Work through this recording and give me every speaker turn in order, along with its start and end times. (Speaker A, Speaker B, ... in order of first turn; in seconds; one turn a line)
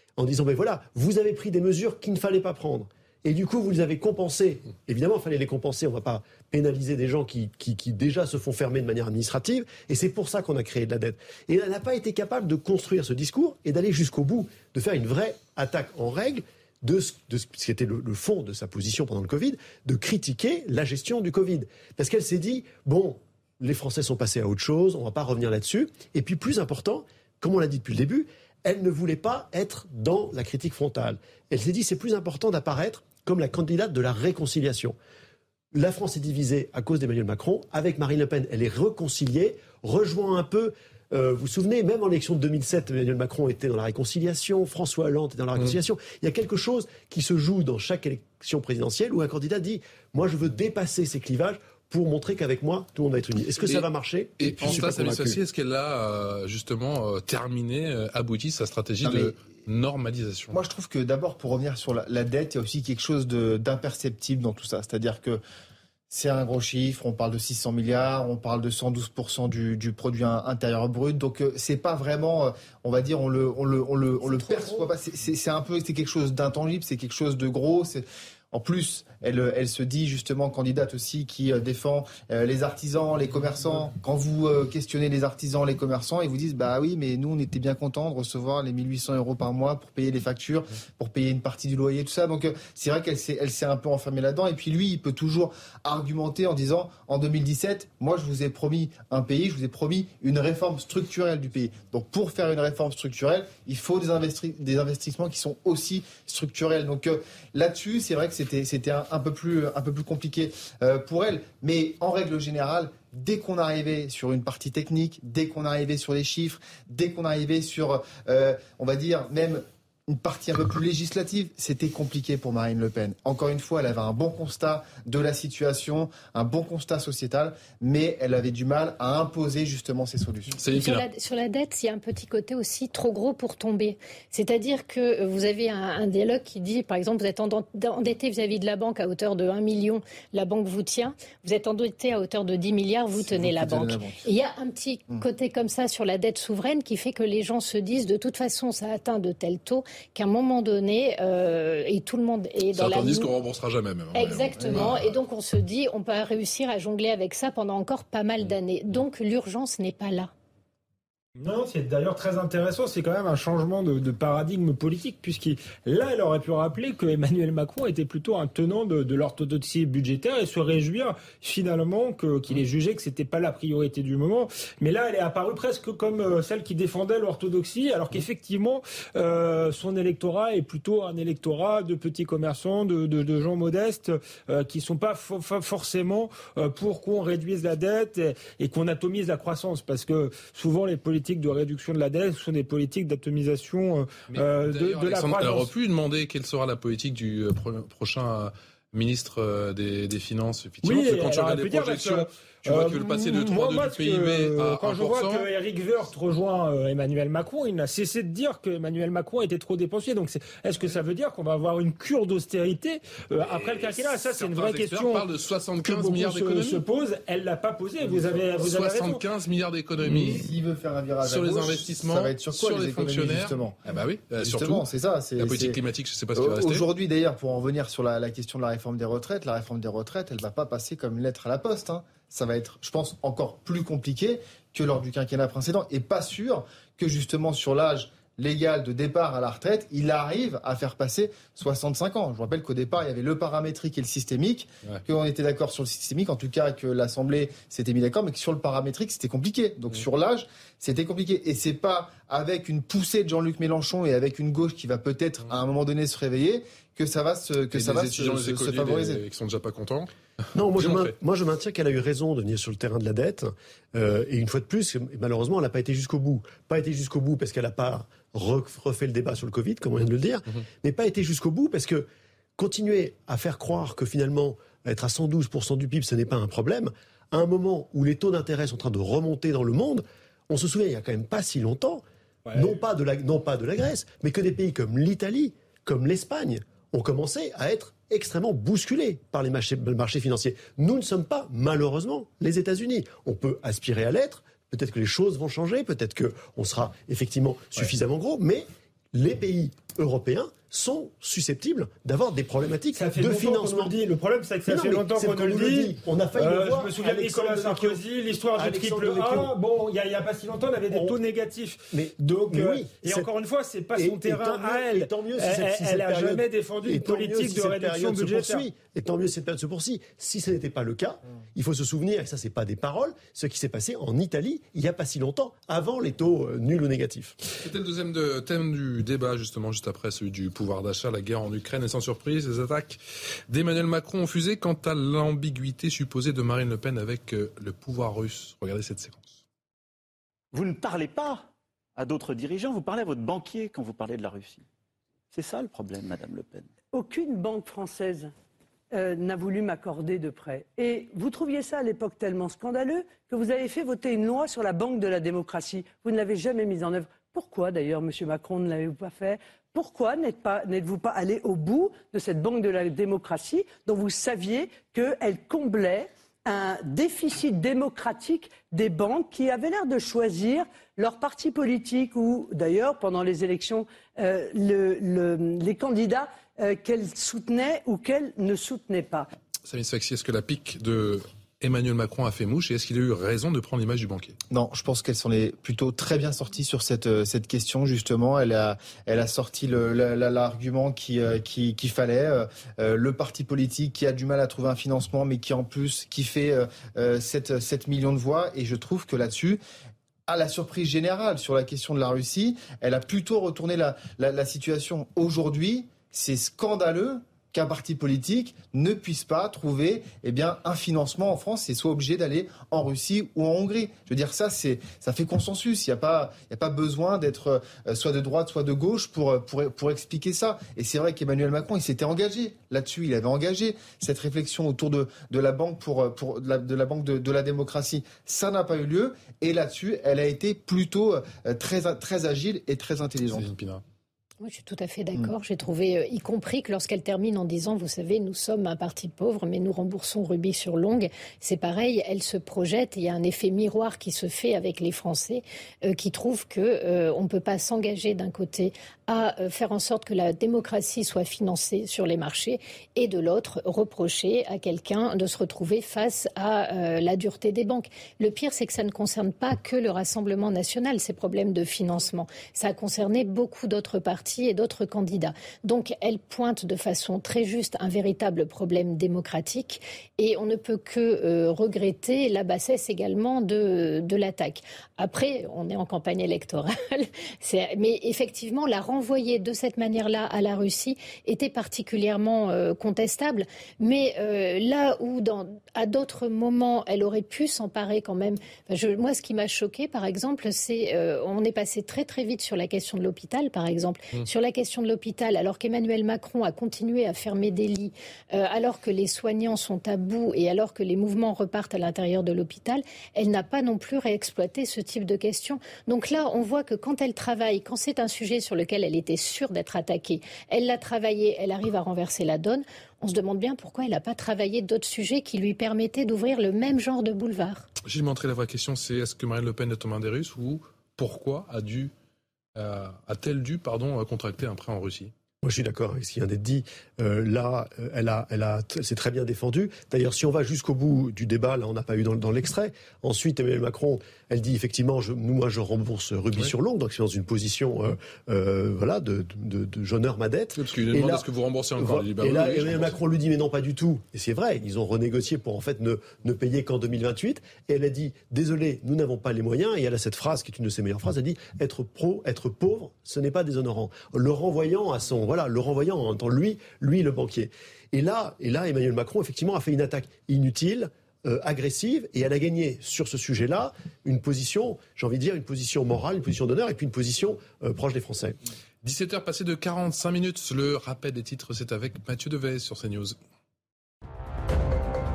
Speaker A: 0.2-35.0
Speaker A: 35.7-55.4
Speaker B: 54.4-60.6
Speaker C: 59.0-59.3
Speaker C: 60.5-65.4
Speaker C: 66.1-130.6
Speaker D: 74.2-74.9
Speaker B: 130.6-131.0
Speaker D: 130.7-153.3
Speaker C: 143.2-144.2
Speaker B: 152.7-155.1
Speaker D: 154.1-160.3
Speaker E: 161.4-195.7
Speaker B: 194.3-205.5
Speaker E: 200.8-215.3
Speaker B: 213.4-216.8
Speaker E: 215.8-219.2
Speaker B: 218.0-220.5
Speaker C: 220.0-223.8
Speaker B: 221.2-224.8
Speaker C: 224.4-225.8
Speaker B: 225.4-226.8
Speaker C: 226.3-259.2
Speaker B: 257.7-260.1
Speaker A: 260.5-304.0
Speaker B: 260.7-261.1
Speaker E: 302.9-318.7
Speaker A: 304.7-308.0
Speaker A: 308.5-309.5
Speaker A: 310.9-311.2
Speaker A: 311.9-313.3
Speaker A: 313.9-327.4
Speaker B: 327.6-333.0
Speaker B: 333.5-339.4
Speaker F: 340.5-344.6
Speaker F: 345.3-346.7
Speaker G: 346.9-348.3
Speaker G: 348.9-379.3
Speaker B: 379.6-384.4
Speaker C: 384.5-399.6
Speaker C: 400.3-433.5
Speaker B: 433.3-433.8
Speaker D: 434.4-517.6
Speaker B: 517.8-521.9
Speaker B: 522.5-525.1
Speaker A: 525.4-541.2
Speaker B: 540.5-543.0
Speaker A: 541.8-568.4
Speaker B: 568.8-573.2